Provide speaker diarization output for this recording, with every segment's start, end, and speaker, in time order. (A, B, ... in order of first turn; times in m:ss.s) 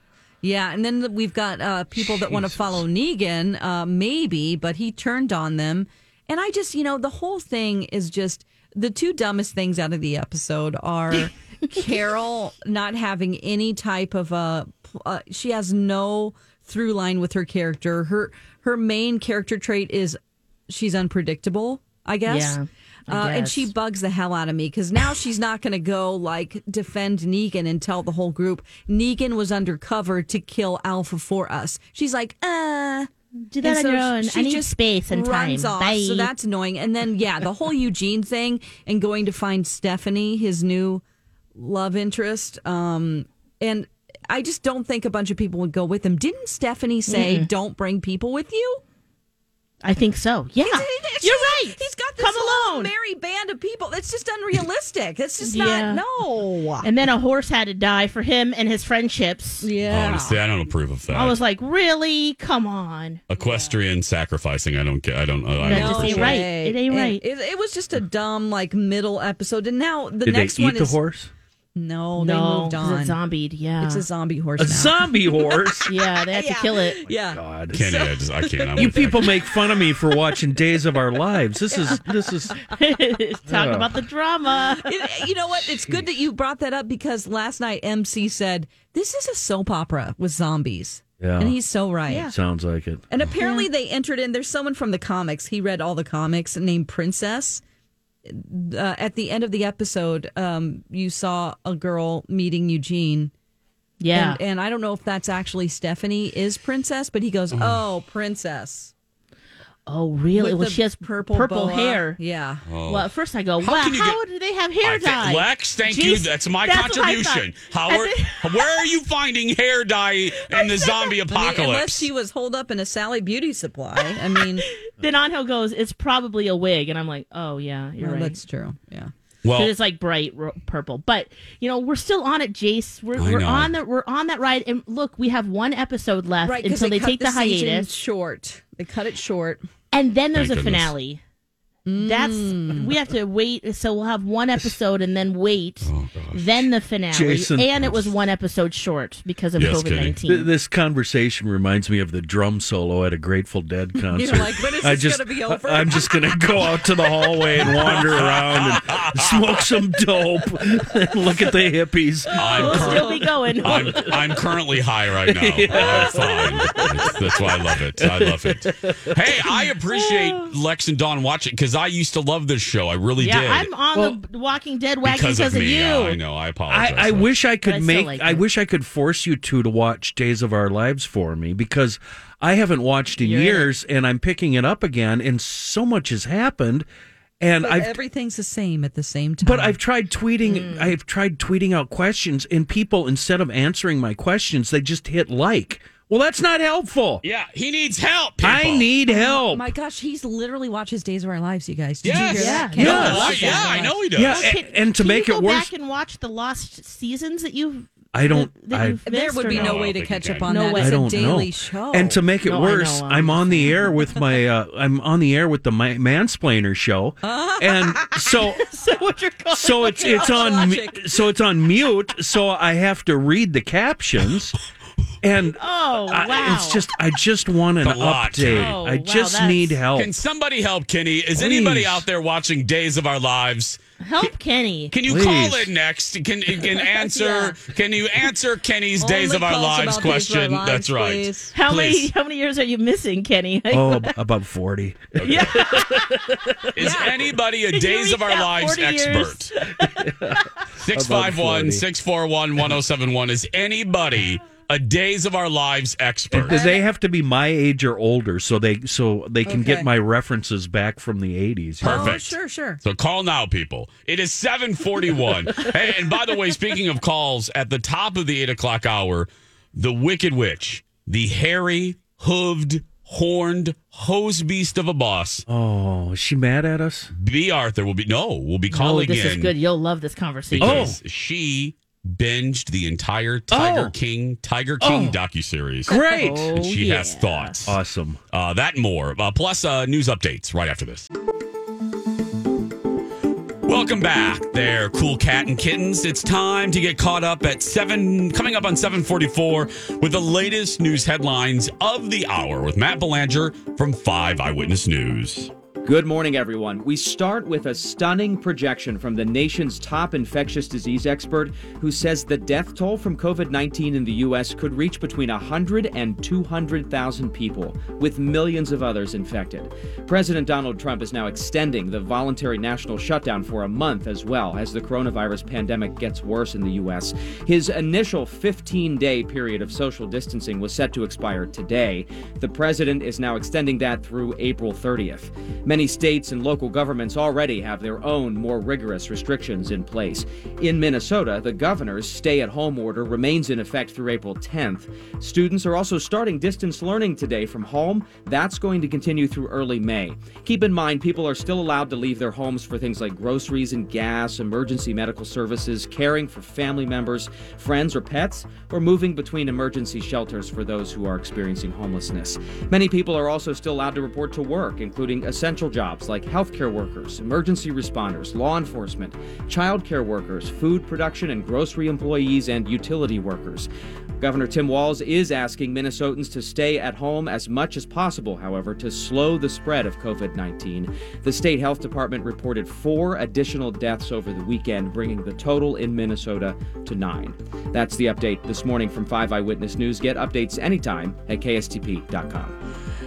0:00.4-0:33.1 A
0:22.3-0:23.7 B
0:33.5-0:36.3 B
0:33.6-0:41.0 A
0:41.6-0:48.8 A
0:47.1-0:47.5 B
0:49.8-0:52.9 B
0:50.6-0:56.9 A
0:55.4-0:56.0 B
0:56.8-0:59.7 B
0:59.6-1:00.4 A
0:59.9-1:01.4 C
1:01.1-1:03.2 B
1:03.3-1:06.4 C
1:03.4-1:03.8 A
1:05.6-1:11.0 A
1:05.6-1:07.2 B
1:10.2-1:11.3 D
1:11.8-1:13.2 A
1:12.2-1:14.0 B
1:13.8-1:19.5 A
1:14.6-1:15.9 D
1:15.9-1:17.0 B
1:17.2-1:17.8 D
1:17.7-1:19.3 C
1:18.8-1:22.6 D
1:21.7-1:22.0 A
1:22.7-1:25.0 B
1:23.5-1:23.9 D
1:24.8-1:32.3 A
1:31.2-1:31.6 D
1:32.1-1:32.4 B
1:32.2-1:33.0 D
1:33.1-1:37.6 A
1:33.4-1:33.7 B
1:38.3-1:43.3 A
1:44.0-1:44.4 B
1:44.1-1:48.9 A
1:47.5-1:47.8 C
1:49.9-1:52.2 B
1:50.4-1:52.6 A
1:52.7-1:53.1 C
1:52.9-1:58.8 B
1:53.6-1:54.2 C
1:54.8-2:02.1 C
2:00.5-2:01.2 B
2:01.3-2:04.7 A
2:04.7-2:08.4 B
2:08.0-2:09.1 A
2:09.4-2:09.7 C
2:09.5-2:17.9 B
2:13.2-2:13.7 C
2:16.4-2:19.6 A
2:19.9-2:21.2 B
2:20.3-2:20.9 C
2:21.9-2:22.9 A
2:22.0-2:30.5 B
2:25.8-2:26.6 C
2:27.1-2:28.1 D
2:29.6-2:30.2 C
2:30.3-2:42.8 D
2:34.1-2:36.7 A
2:37.6-2:39.6 C
2:42.4-2:53.7 C
2:42.4-2:43.4 A
2:42.6-2:44.1 B
2:43.7-2:44.1 D
2:45.2-2:49.5 D
2:53.2-2:56.2 B
2:55.0-2:57.3 C
2:56.7-3:06.9 D
2:57.6-2:58.4 B
3:03.2-3:03.7 B
3:07.4-3:08.0 D
3:07.6-3:09.8 A
3:09.4-3:17.2 D
3:10.4-3:11.0 B
3:17.2-3:18.9 C
3:18.4-3:19.7 D
3:19.1-3:24.1 A
3:22.0-3:24.5 C
3:22.1-3:29.9 B
3:22.8-3:23.4 D
3:24.1-3:25.7 D
3:28.1-3:29.0 D
3:29.0-3:32.2 A
3:29.5-3:30.5 C
3:30.5-3:31.4 B
3:30.8-3:38.7 D
3:32.4-3:33.9 B
3:37.2-3:38.4 A
3:38.7-3:40.6 B
3:39.5-3:44.6 D
3:39.9-3:41.2 A
3:45.2-3:50.1 D
3:45.6-3:46.9 B
3:47.8-3:48.8 C
3:48.5-3:49.8 B
3:50.0-3:53.8 C
3:51.4-3:52.0 D
3:54.0-3:54.9 B
3:54.9-4:02.1 C
3:55.0-3:55.7 D
3:56.8-3:57.6 A
3:59.0-4:01.5 A
4:01.5-4:04.1 B
4:03.7-4:06.8 D
4:05.2-4:05.6 C
4:05.2-4:06.2 B
4:06.8-4:09.5 C
4:06.8-4:07.1 A
4:07.7-4:10.4 B
4:10.0-4:10.4 D
4:10.8-4:16.6 C
4:10.9-4:11.9 D
4:16.3-4:22.2 D
4:16.5-4:16.8 A
4:19.4-4:19.9 A
4:21.8-4:22.8 A
4:21.8-4:35.5 C
4:35.5-4:37.1 D
4:37.2-4:39.5 C
4:38.7-4:41.0 B
4:40.5-4:46.0 C
4:40.6-4:41.0 D
4:43.5-4:43.9 D
4:44.8-4:45.2 D
4:45.9-4:46.5 D
4:45.9-4:47.5 B
4:46.5-4:47.8 C
4:47.7-4:48.2 D
4:48.3-4:51.1 C
4:53.7-5:05.5 C
5:05.8-6:32.6 E